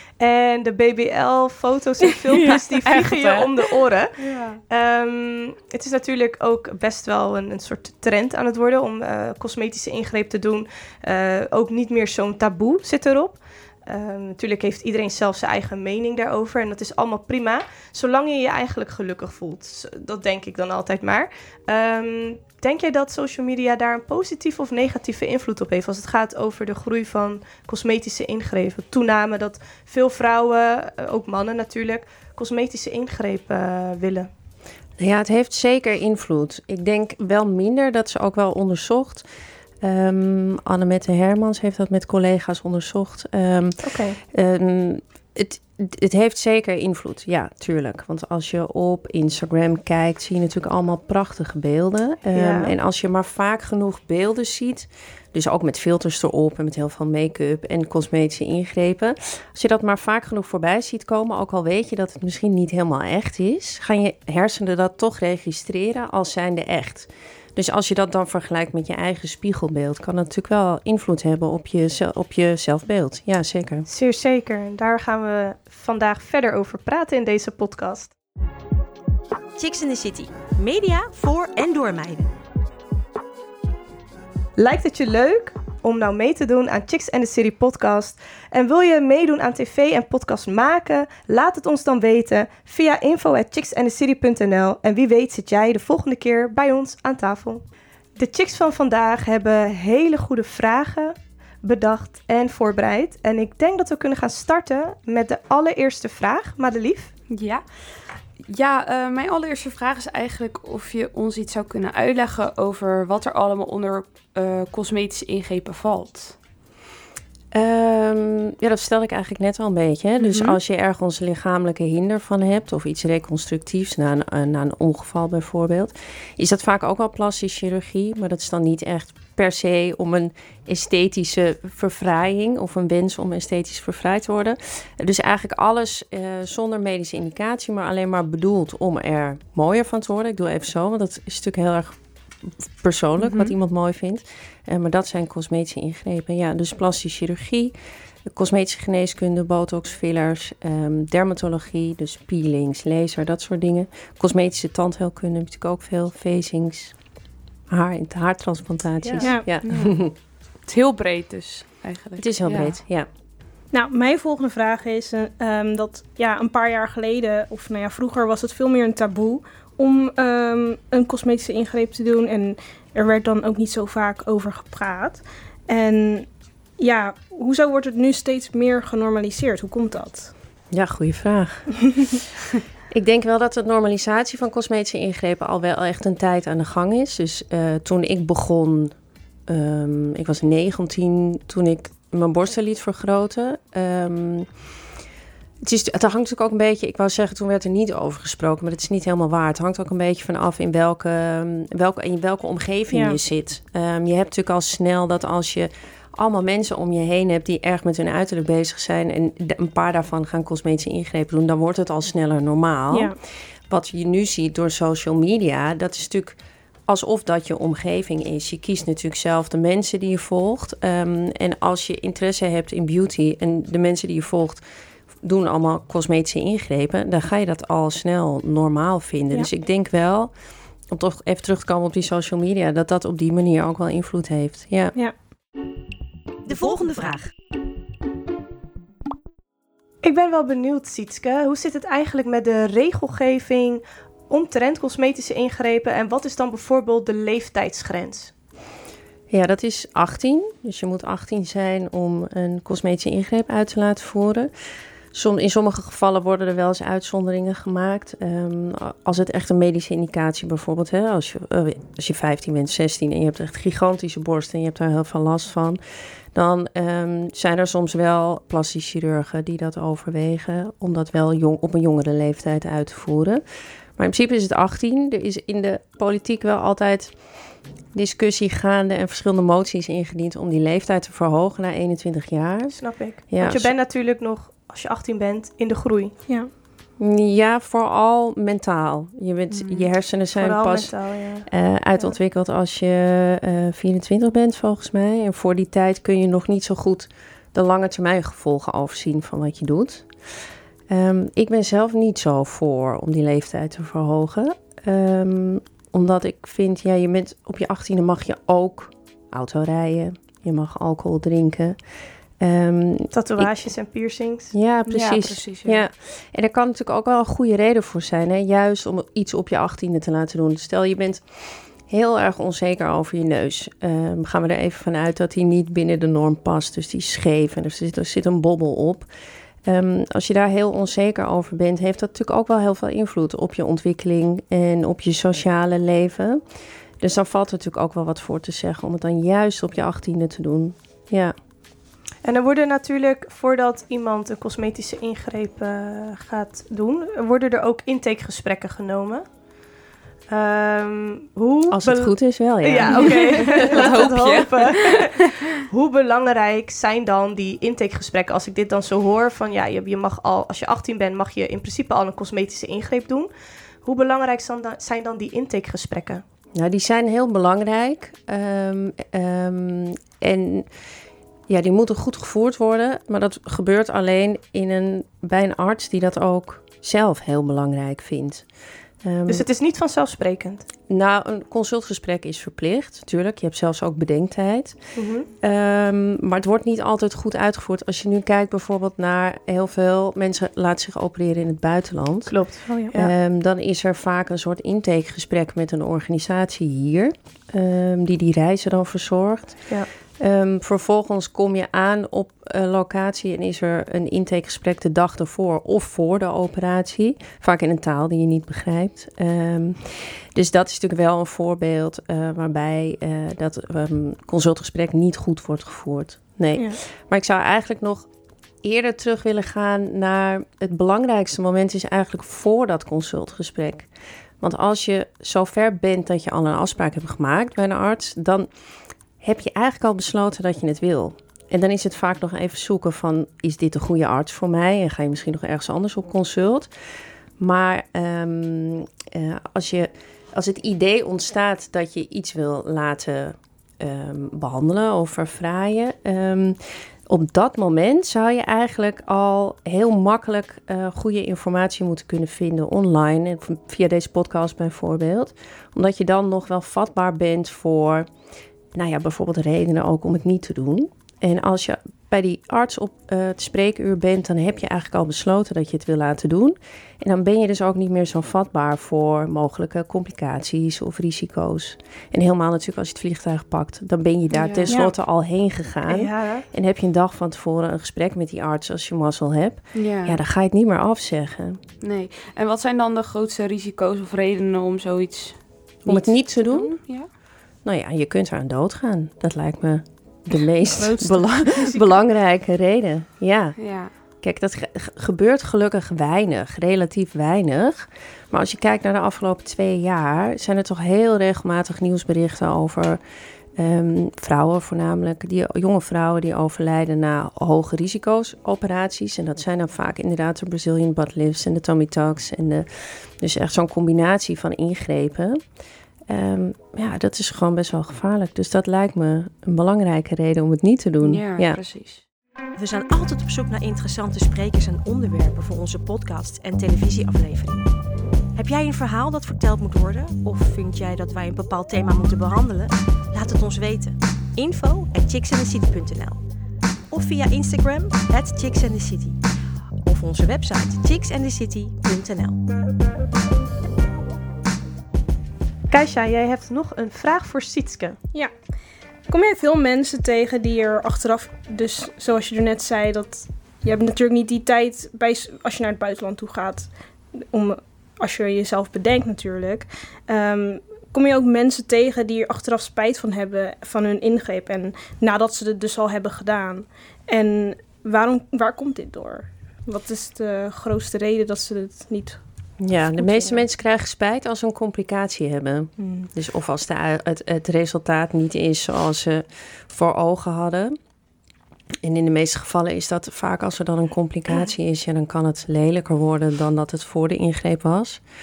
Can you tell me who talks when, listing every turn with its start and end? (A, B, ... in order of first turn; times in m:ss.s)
0:00.2-0:34.3 A
0:02.4-0:03.5 B
0:35.0-0:39.2 C
0:39.8-1:13.9 C
0:43.8-0:44.2 A
0:52.3-0:52.7 A
1:13.9-1:18.1 A
1:19.6-1:22.3 D
1:24.6-1:37.6 A
1:38.2-1:47.1 A
1:47.3-1:47.6 B
1:48.4-1:56.4 B
1:57.5-2:27.7 C
2:00.2-2:00.6 B
2:23.2-2:23.5 B
2:28.2-2:37.0 C
2:37.7-2:40.1 C
2:39.2-2:39.5 E
2:39.6-2:40.0 B
2:40.6-2:42.8 B
2:42.2-2:43.1 C
2:43.7-3:00.3 E
3:00.7-3:02.2 C
3:02.9-3:08.9 C
3:09.5-3:14.5 C
3:15.6-3:33.2 C
3:22.9-3:23.2 E
3:32.9-3:33.2 E
3:33.7-3:44.6 C
3:45.2-3:50.3 C
3:50.9-3:55.0 C
3:56.4-3:57.3 D
4:00.0-4:08.3 A
4:09.3-4:14.5 C
4:15.1-4:25.8 C
4:26.3-4:33.4 C
4:34.0-4:37.2 C
4:37.9-4:43.7 C
4:42.8-4:46.2 A
4:47.0-4:51.0 C
4:49.6-4:52.1 A
4:51.5-5:11.8 C
5:12.4-5:13.7 C
5:13.1-5:14.5 A
5:14.5-5:29.1 C
5:14.9-5:15.8 B
5:29.6-5:36.4 C
5:37.0-5:41.3 C
5:42.2-5:49.3 A
5:50.3-6:03.3 A
5:51.7-5:53.9 C
5:53.5-5:55.2 B
6:03.8-6:06.2 A
6:06.5-6:10.7 C
6:11.5-6:18.4 C
6:19.0-6:19.5 C
6:19.3-6:20.6 A
6:20.9-6:58.1 C
6:24.9-6:25.3 A
6:32.3-6:33.1 A
6:58.6-7:08.5 C
7:09.2-7:16.7 C
7:17.4-7:38.1 C
7:38.7-8:01.6 C
7:54.3-7:54.7 B
7:54.7-7:54.9 E
7:55.9-7:56.4 A
7:59.7-8:00.2 B
8:01.8-8:07.1 B
8:05.8-8:06.8 C
8:07.6-8:23.0 C
8:10.8-8:11.8 A
8:13.6-8:13.9 B
8:23.6-8:35.4 C
8:36.1-8:41.6 C
8:41.0-8:42.0 B
8:42.5-8:47.7 D
8:48.3-8:56.2 D
8:56.9-8:59.2 D
8:59.8-9:02.4 D
9:05.7-9:08.0 A
9:09.1-9:32.2 E
9:32.6-9:40.8 C
9:33.0-9:33.4 E
9:41.8-9:48.0 C